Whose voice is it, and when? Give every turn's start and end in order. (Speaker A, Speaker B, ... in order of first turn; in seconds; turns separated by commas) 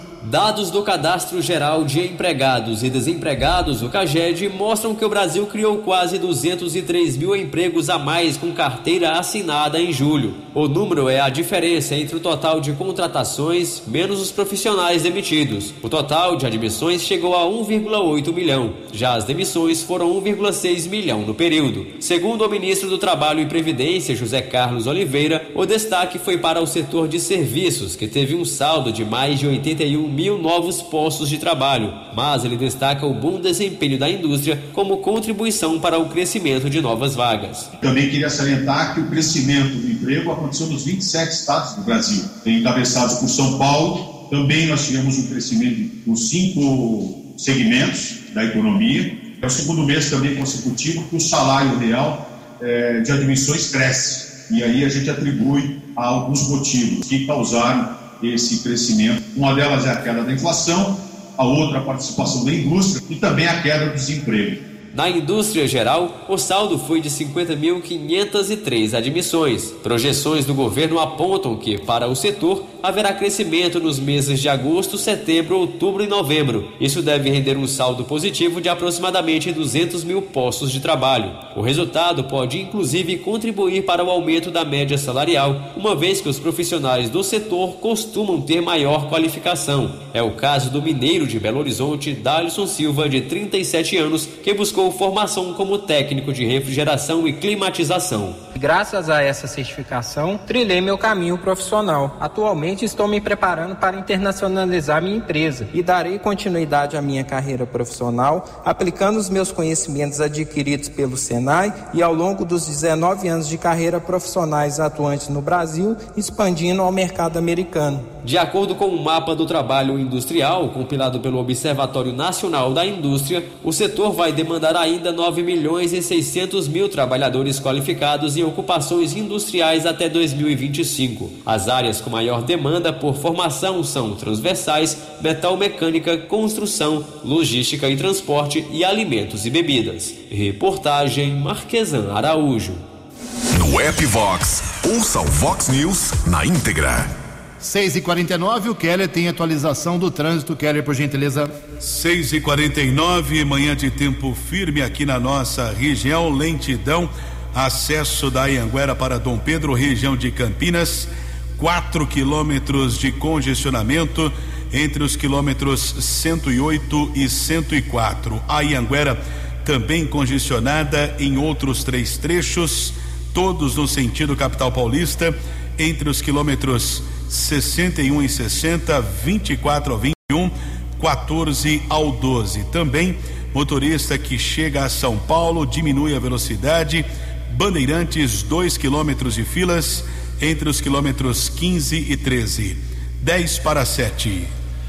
Speaker A: 0.2-37.7, Speaker B: 37.8-64.6, Speaker A: 64.9-98.4, Speaker C: 98.5-118.1, Speaker A: 118.2-142.8, Speaker D: 143.5-147.1, Speaker E: 147.6-151.5, Speaker F: 151.8-194.5